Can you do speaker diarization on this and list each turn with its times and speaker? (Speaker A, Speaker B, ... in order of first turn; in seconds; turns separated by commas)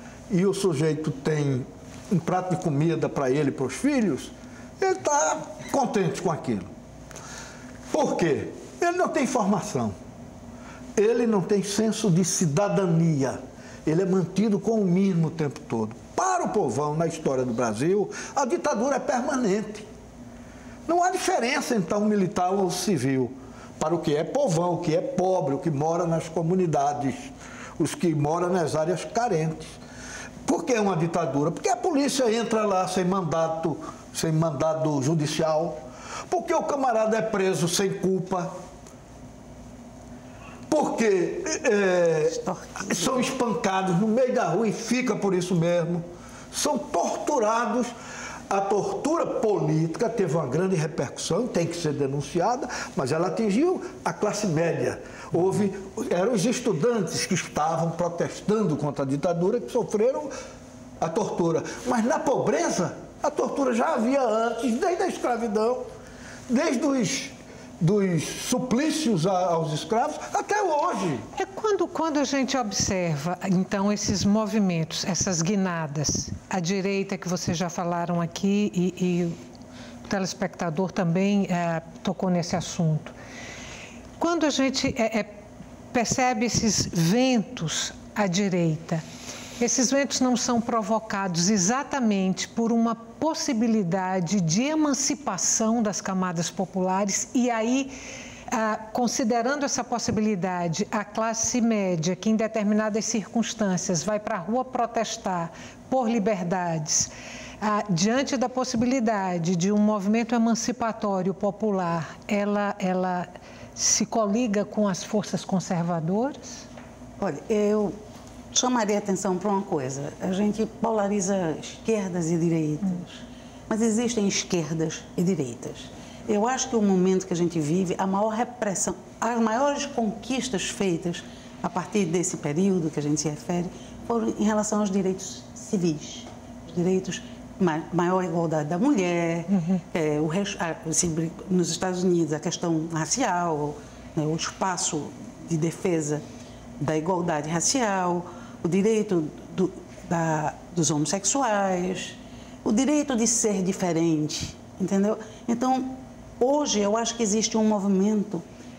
Speaker A: 0.3-6.7, Speaker A: 7.9-10.0, Speaker A: 11.0-19.9, Speaker A: 20.9-29.8, Speaker A: 30.4-38.5, Speaker A: 40.7-47.9, Speaker B: 42.3-43.1, Speaker A: 48.5-60.3, Speaker A: 61.0-65.8, Speaker A: 66.5-71.3, Speaker C: 71.3-79.4, Speaker C: 80.1-83.2, Speaker C: 84.2-85.4, Speaker C: 85.9-89.0, Speaker C: 89.6-97.9, Speaker C: 98.5-107.1, Speaker C: 107.6-116.6, Speaker B: 117.2-118.0, Speaker B: 118.5-146.2, Speaker C: 139.5-139.8, Speaker B: 146.8-158.4